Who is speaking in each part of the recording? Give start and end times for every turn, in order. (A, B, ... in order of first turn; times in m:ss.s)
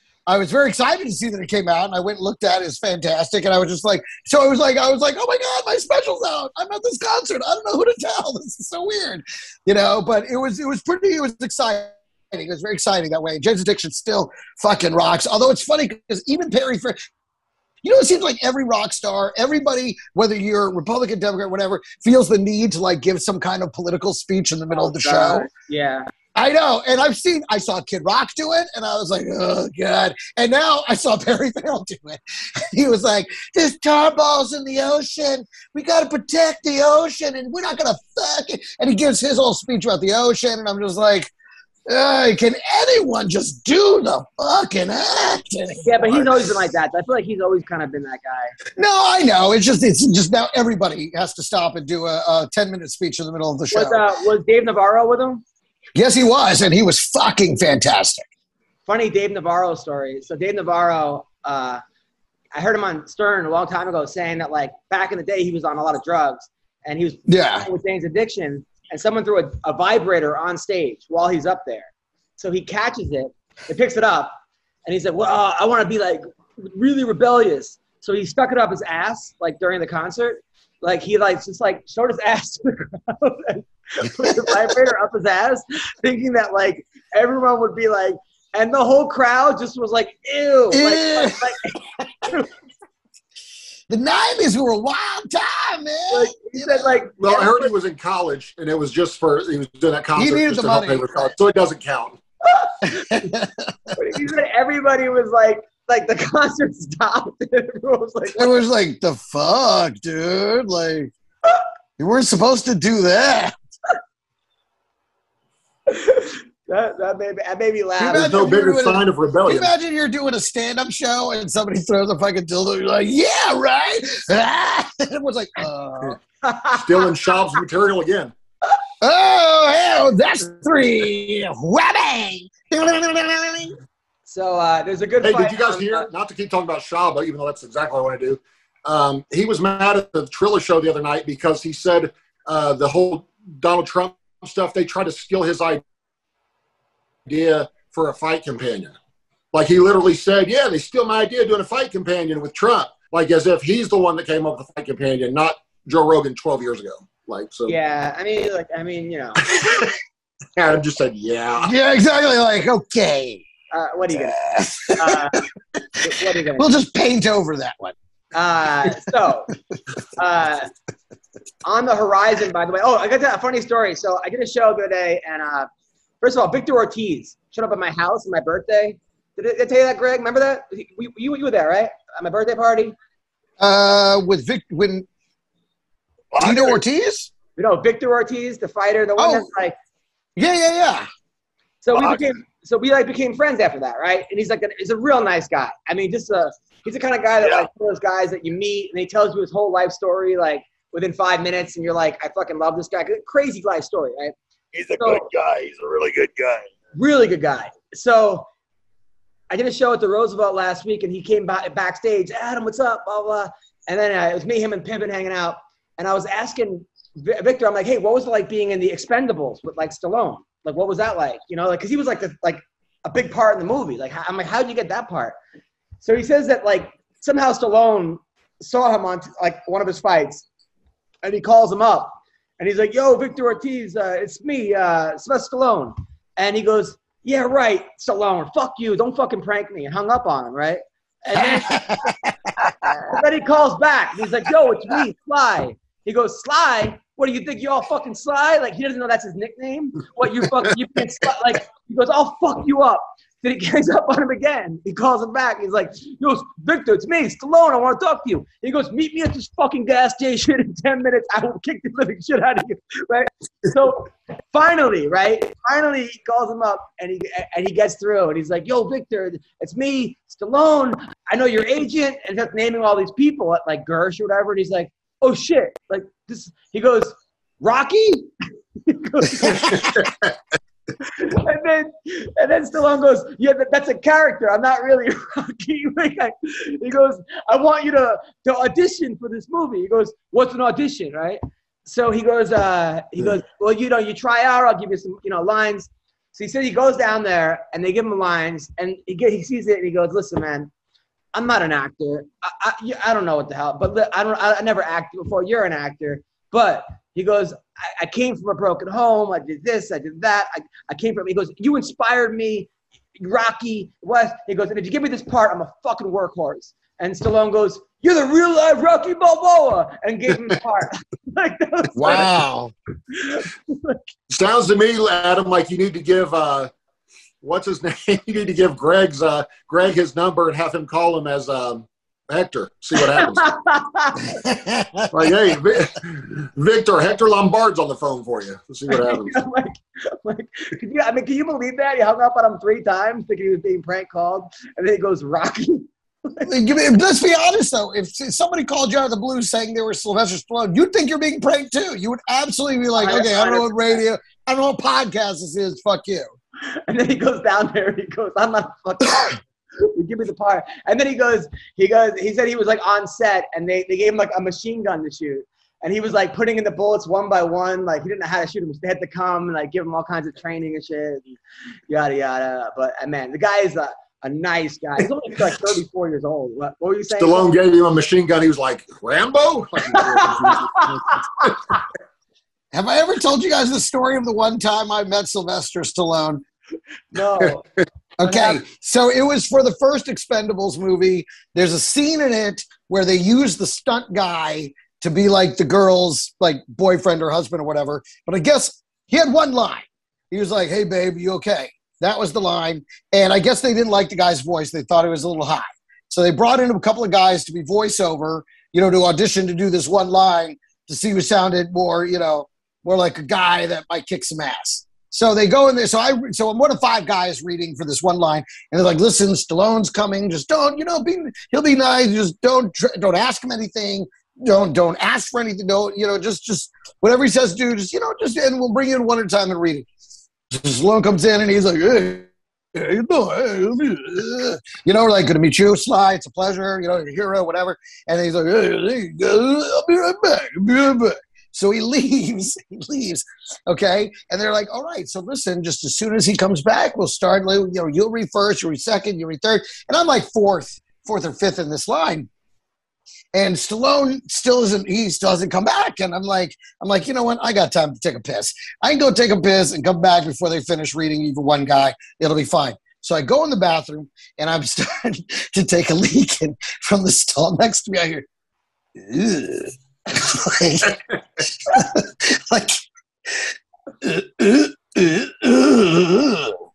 0:00.3-0:17.0 A
0:17.8-0:25.5 A
0:24.7-0:26.1 B
0:26.3-0:41.3 A
0:41.9-0:46.3 A
0:45.8-0:48.5 B
0:48.8-0:54.0 A
0:53.7-0:55.4 B
0:55.9-0:58.2 A
0:58.9-1:01.8 B
1:02.5-1:14.3 B
1:07.3-1:07.7 A
1:14.8-1:32.5 B
1:30.7-1:31.5 A
1:33.9-1:36.9 A
1:36.1-1:37.7 B
1:37.2-1:42.2 C
1:40.2-1:41.3 A
1:42.4-1:43.1 B
1:42.8-1:43.9 A
1:43.9-1:48.6 B
1:48.3-1:51.1 A
1:52.0-1:53.5 A
1:55.9-1:58.6 B
1:58.0-2:06.2 A
1:58.1-1:59.7 C
2:06.4-2:07.1 B
2:06.7-2:08.3 C
2:09.0-2:13.8 A
2:14.3-2:16.1 B
2:15.2-2:25.8 C
2:27.3-2:29.0 C
2:29.5-2:37.7 C
2:37.7-2:39.4 B
2:39.4-2:40.0 C
2:40.6-2:41.7 C
2:41.6-2:43.4 A
2:43.7-2:44.4 B
2:44.1-2:45.4 A
2:44.9-2:45.5 B
2:46.0-2:46.7 B
2:46.6-2:47.9 A
2:48.3-2:49.5 B
2:50.1-2:50.7 B
2:51.6-2:55.7 B
2:56.2-3:02.9 B
3:03.6-3:05.0 A
3:06.3-3:06.8 D
3:06.4-3:07.3 A
3:07.6-3:09.8 B
3:09.2-3:09.5 A
3:10.4-3:11.1 A
3:11.8-3:24.3 B
3:11.9-3:12.2 D
3:17.4-3:17.7 D
3:24.7-3:26.7 D
3:25.0-3:25.2 B
3:26.9-3:28.5 B
3:29.5-3:45.4 B
3:46.0-3:50.4 B
3:51.2-4:01.9 B
4:01.3-4:02.3 A
4:03.1-4:38.3 B
4:38.8-4:40.1 B
4:41.1-5:00.7 B
5:01.3-5:22.3 B
5:21.9-5:22.7 A
5:23.1-5:24.0 B
5:24.3-5:26.7 C
5:27.4-5:33.5 C
5:33.1-5:34.4 B
5:34.4-5:35.3 A
5:35.1-5:39.4 C
5:38.9-5:46.5 B
5:46.4-5:56.3 A
5:53.0-5:54.0 B
5:56.6-6:11.4 B
6:11.9-6:17.5 B
6:17.2-6:21.5 C
6:19.9-6:21.5 B
6:22.7-6:26.4 A
6:27.1-6:27.6 B
6:28.2-7:09.9 A
6:28.2-6:28.6 B
7:10.5-7:32.3 A
7:33.3-7:48.2 A
7:49.0-7:56.6 A